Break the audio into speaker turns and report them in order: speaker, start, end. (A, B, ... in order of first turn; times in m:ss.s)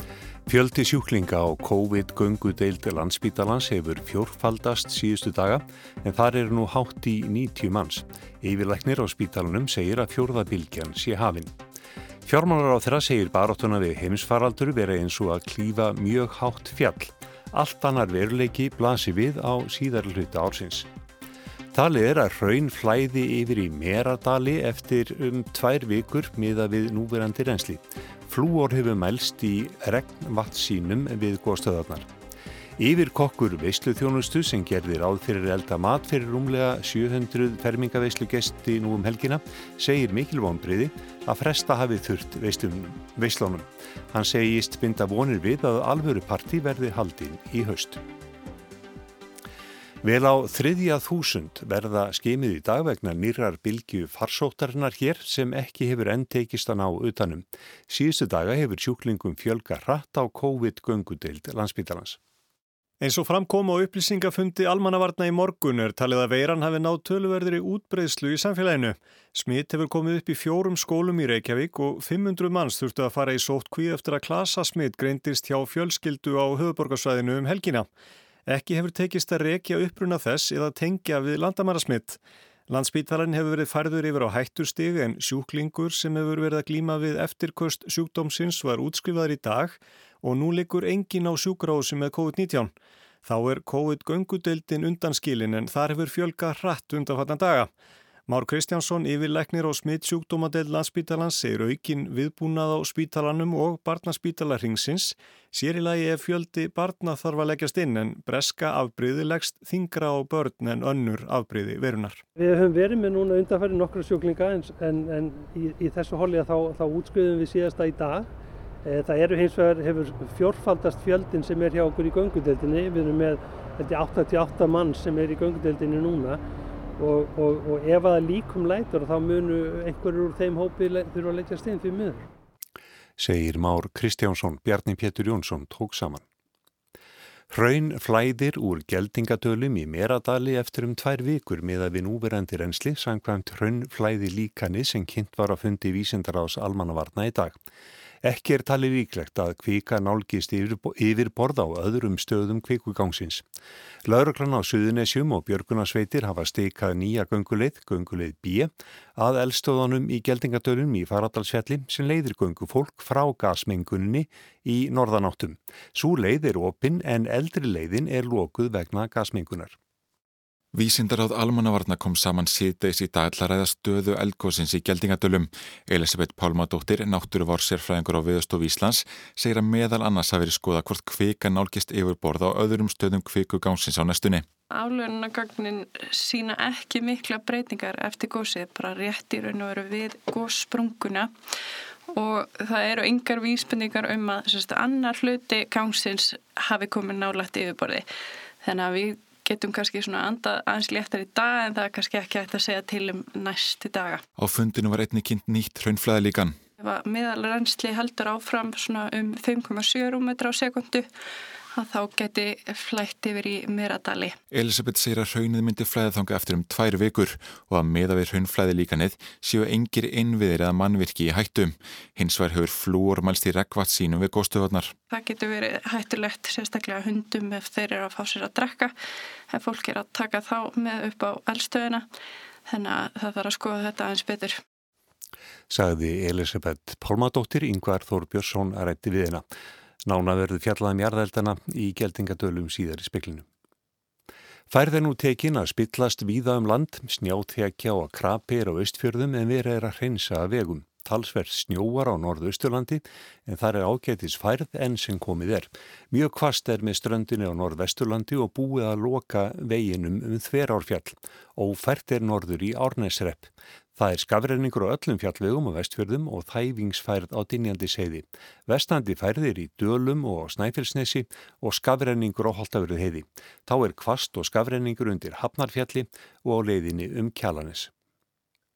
0:00.4-0:11.5 A
0:12.2-0:20.9 A
0:21.7-0:32.1 A
0:32.8-0:48.0 A
0:50.0-1:02.2 A
1:03.0-1:17.9 B
1:18.5-1:32.7 B
1:33.2-1:37.7 B
1:38.3-1:52.2 B
1:52.4-1:58.3 C
1:58.8-2:06.4 C
2:07.0-2:12.3 C
2:13.2-2:16.2 A
2:17.5-2:27.6 A
2:28.2-2:33.4 A
2:34.0-2:49.8 A
2:50.7-3:04.4 D
3:04.7-3:11.3 E
3:12.1-3:18.0 E
3:18.6-3:24.2 E
3:24.4-3:26.6 D
3:26.8-3:31.1 E
3:31.7-3:34.4 E
3:34.5-3:44.9 D
3:45.1-3:48.9 E
3:49.5-3:52.0 E
3:52.7-3:54.6 E
3:55.7-3:59.4 A
4:00.0-4:03.4 A
4:04.7-4:37.9 A